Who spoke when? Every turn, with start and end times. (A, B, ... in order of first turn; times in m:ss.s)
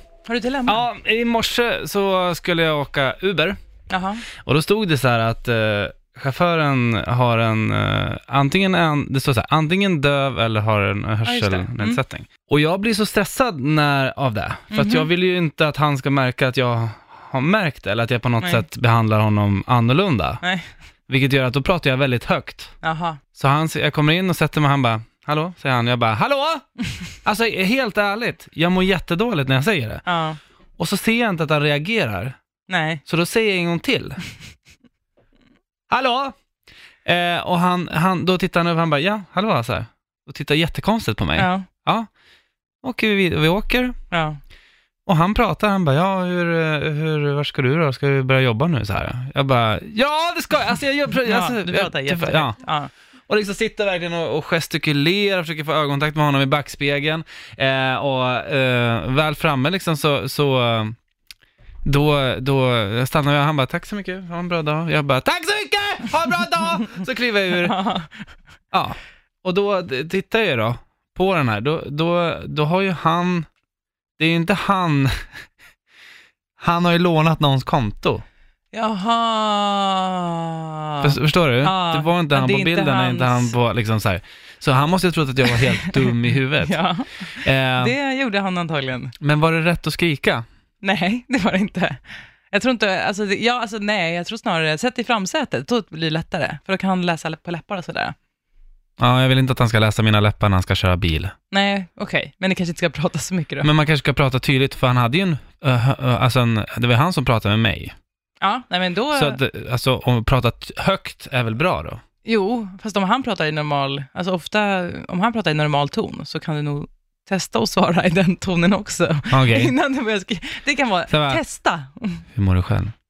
0:00.3-0:00.9 A
0:00.7-0:03.6 B
0:03.9-0:04.2 A
0:04.4-0:20.4 B
0:11.3-0:12.0 A
0:14.7-0:15.1 A
0:18.4-0:18.7 A
0:20.4-0:20.7 A
0:21.1-0:22.7 B
0:22.8-0:23.2 A
0:23.3-0:26.6 B
0:27.2-0:30.0 B
0:30.1-0:30.4 A
0:30.8-0:32.3 B
0:32.7-0:33.0 A
0:33.0-0:34.2 B
0:35.9-0:36.3 B
0:37.0-0:42.1 B
0:41.4-0:41.7 A
0:42.8-0:44.0 B
0:44.1-0:44.4 A
0:45.0-0:52.6 B
0:51.2-0:52.9 A
0:53.3-1:01.0 B
1:01.8-1:07.8 B
1:07.6-1:08.2 A
1:08.7-1:13.5 B
1:14.2-1:15.1 B
1:16.6-1:18.2 B
1:18.7-1:23.5 A
1:21.0-1:26.8 B
1:25.4-1:29.1 A
1:27.4-1:27.9 B
1:29.2-1:30.4 B
1:30.8-1:38.1 A
1:39.0-1:41.3 B
1:41.5-1:43.7 A
1:43.6-1:47.9 B
1:48.4-1:49.4 A
1:49.1-1:52.0 B
1:52.2-2:02.2 A
1:59.3-1:59.7 B
2:01.1-2:01.4 B
2:02.3-2:02.9 B